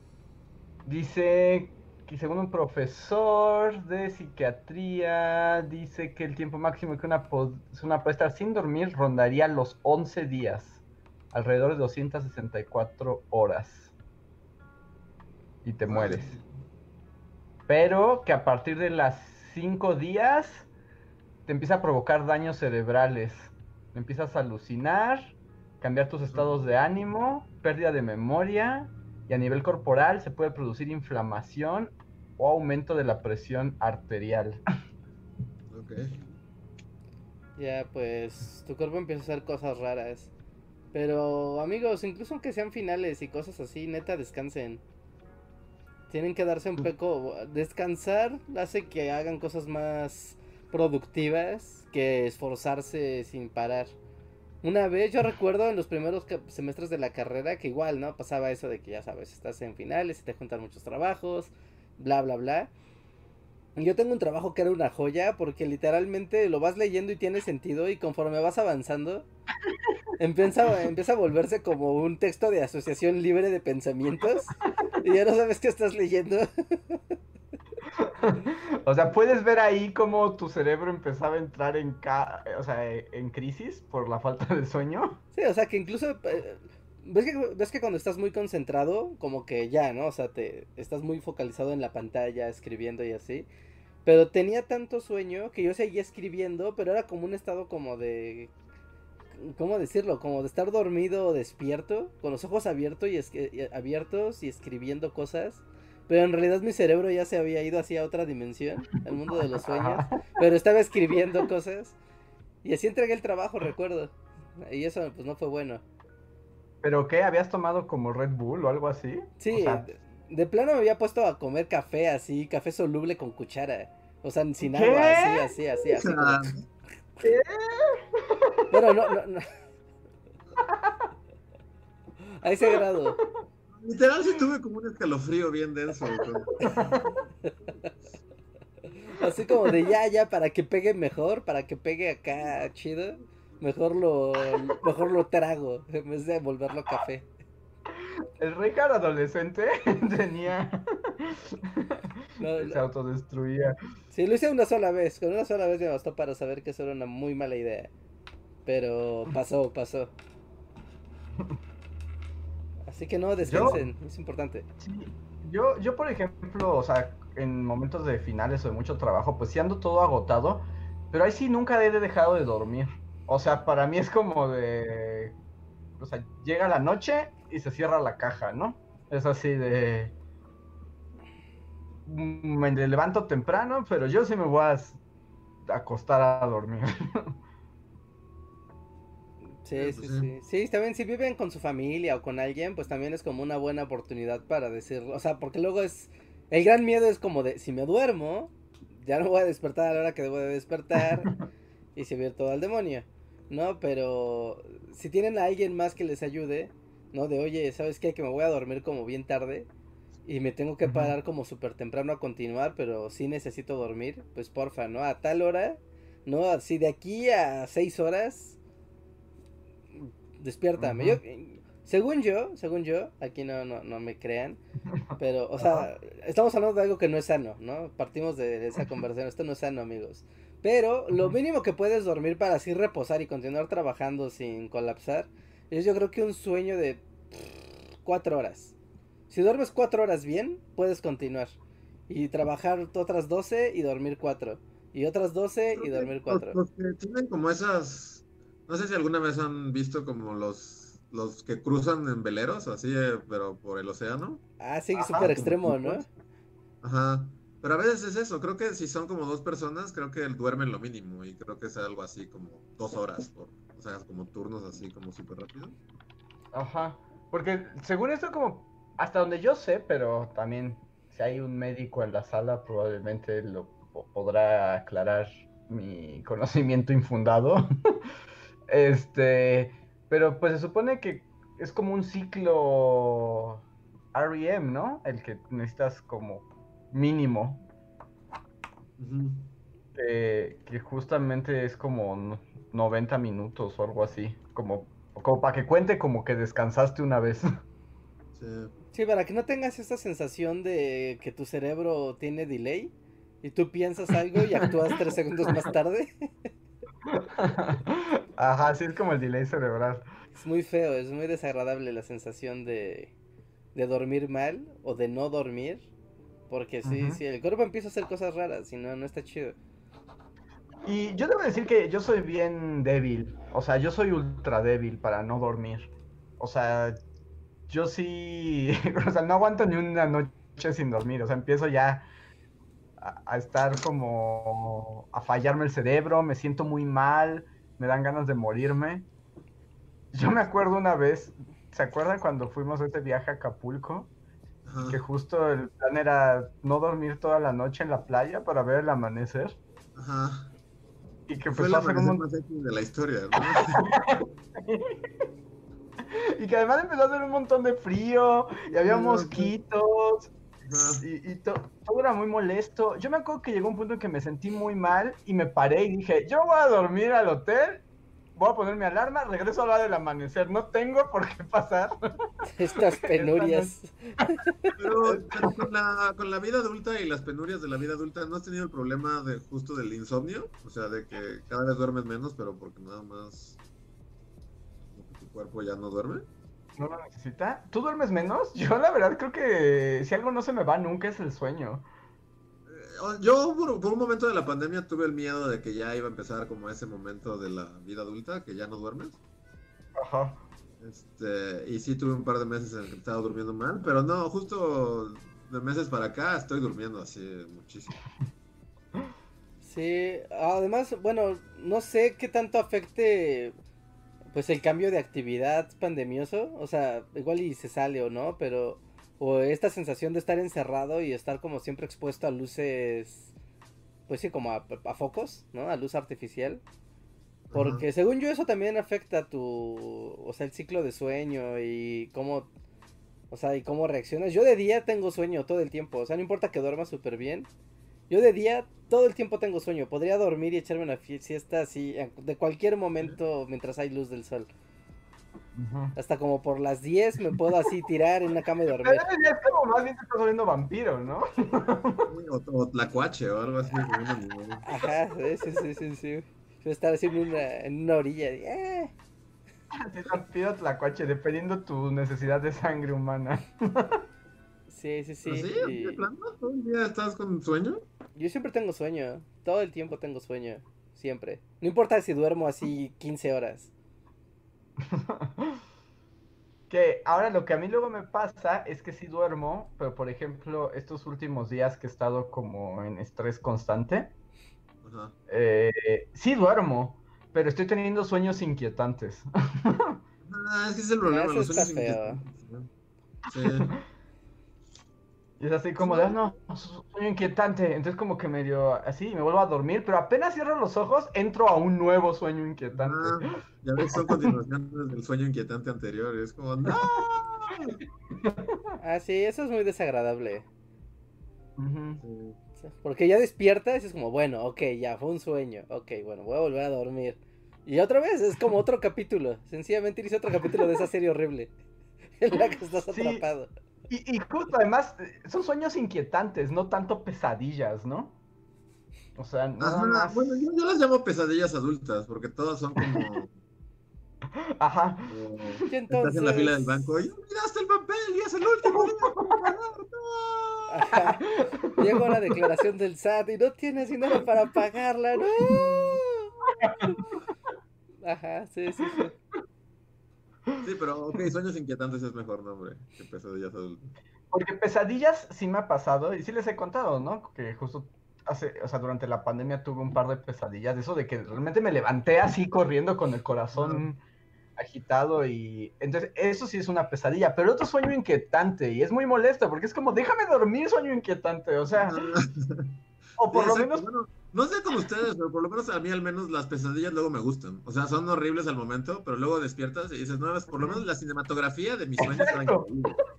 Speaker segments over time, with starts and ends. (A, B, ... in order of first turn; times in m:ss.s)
0:00.8-0:10.8 A
0:11.3-0:13.9 A
0:15.6-0:16.3 A
0:15.9-0:16.5 B
0:17.7-0:20.7 A
0:21.5-0:34.6 A
0:35.7-0:36.2 B
0:37.6-0:40.3 C
0:40.9-0:44.8 C
0:46.1-0:54.0 C
0:54.6-1:02.7 C
1:03.8-1:09.3 C
1:10.2-1:17.2 C
1:17.9-1:25.2 A
1:25.3-1:33.5 C
1:34.0-1:38.5 C
1:39.4-1:52.0 C
1:49.6-1:50.2 A
1:52.6-1:55.8 C
1:56.8-1:59.9 A
1:59.4-2:06.6 C
2:04.6-2:05.5 A
2:05.9-2:06.7 B
2:07.2-2:08.9 A
2:08.7-2:09.5 C
2:10.6-2:11.0 A
2:12.3-2:13.2 C
2:12.6-2:13.4 A
2:13.7-2:16.7 B
2:16.1-2:17.2 A
2:19.0-2:27.3 C
2:27.9-2:33.8 A
2:32.4-2:32.9 C
2:34.1-2:37.9 C
2:38.7-2:40.1 C
2:42.9-2:44.7 C
2:43.5-2:43.9 A
2:44.8-2:55.4 A
2:56.0-3:00.2 A
3:02.1-3:05.0 A
3:05.6-3:07.4 A
3:09.6-3:21.3 C
3:09.7-3:10.3 B
3:22.0-3:29.7 C
3:30.3-3:38.6 C
3:30.8-3:31.1 A
3:40.0-3:44.6 C
3:40.8-3:41.2 A
3:44.9-3:45.9 A
3:45.2-3:58.7 C
3:59.3-4:01.6 C
4:02.1-4:06.6 C
4:05.7-4:14.4 B
4:14.6-4:16.1 C
4:15.0-4:15.3 A
4:15.2-4:16.0 B
4:16.8-4:25.8 B
4:26.5-4:37.6 A
4:38.7-4:47.6 A
4:49.0-4:49.6 B
4:50.0-4:57.5 A
4:58.3-4:58.7 B
4:58.9-5:06.5 C
5:07.1-5:10.1 A
5:10.4-5:13.1 C
5:13.8-5:15.9 C
5:16.5-5:19.6 C
5:16.8-5:17.2 A
5:20.8-5:27.0 A
5:27.7-5:32.1 A
5:33.0-5:39.1 A
5:40.1-5:44.1 A
5:44.7-5:45.0 B
5:44.9-5:49.6 A
5:50.0-5:50.5 B
5:51.3-5:52.2 A
5:51.5-5:53.9 B
5:53.4-5:55.0 A
5:56.1-6:00.3 A
5:58.8-5:59.5 B
6:00.7-6:01.0 B
6:01.0-6:12.0 A
6:12.5-6:14.7 C
6:12.8-6:13.7 A
6:14.8-6:23.6 B
6:15.0-6:15.6 A
6:25.0-6:26.3 B
6:26.8-6:31.9 A
6:32.7-6:39.2 B
6:40.0-6:40.4 A
6:40.8-6:48.0 B
6:49.6-6:53.6 C
6:54.3-7:03.3 C
7:04.1-7:06.6 C
7:07.5-7:07.8 B
7:07.6-7:12.5 C
7:13.3-7:17.5 C
7:18.1-7:24.5 C
7:25.6-7:26.0 A
7:26.0-7:29.1 C
7:28.8-7:32.1 A
7:32.1-7:34.6 B
7:34.6-7:38.9 C
7:39.7-7:44.0 A
7:44.7-7:46.0 C
7:45.2-7:47.8 B
7:48.2-7:53.7 C
7:54.8-7:55.6 A
7:56.7-8:04.1 A
8:04.8-8:05.1 B
8:05.3-8:10.0 A
8:10.3-8:12.7 B
8:11.1-8:12.2 C
8:13.3-8:13.8 B
8:15.4-8:23.3 A
8:15.8-8:16.2 B
8:22.7-8:27.8 B
8:23.9-8:24.4 A
8:26.7-8:26.9 A
8:28.1-8:28.8 A
8:28.8-8:30.5 C
8:31.6-8:32.0 A
8:32.0-8:32.4 B
8:32.6-8:41.5 C
8:42.2-8:43.5 C
8:42.9-8:43.3 A
8:43.9-8:48.2 A
8:49.2-8:50.2 A
8:49.6-8:53.3 B
8:54.6-8:55.6 A
8:55.1-9:00.8 B
8:55.7-8:56.9 C
8:58.7-8:59.5 A
9:00.7-9:01.2 C
9:01.2-9:02.1 A
9:01.8-9:06.3 C
9:05.5-9:06.0 B
9:06.5-9:07.0 A
9:08.0-9:09.1 C
9:10.6-9:13.9 B
9:14.3-9:24.0 A
9:23.5-9:23.9 B
9:24.6-9:32.1 A
9:31.8-9:43.0 B
9:33.2-9:33.8 A
9:40.6-9:40.8 A
9:42.0-9:42.7 A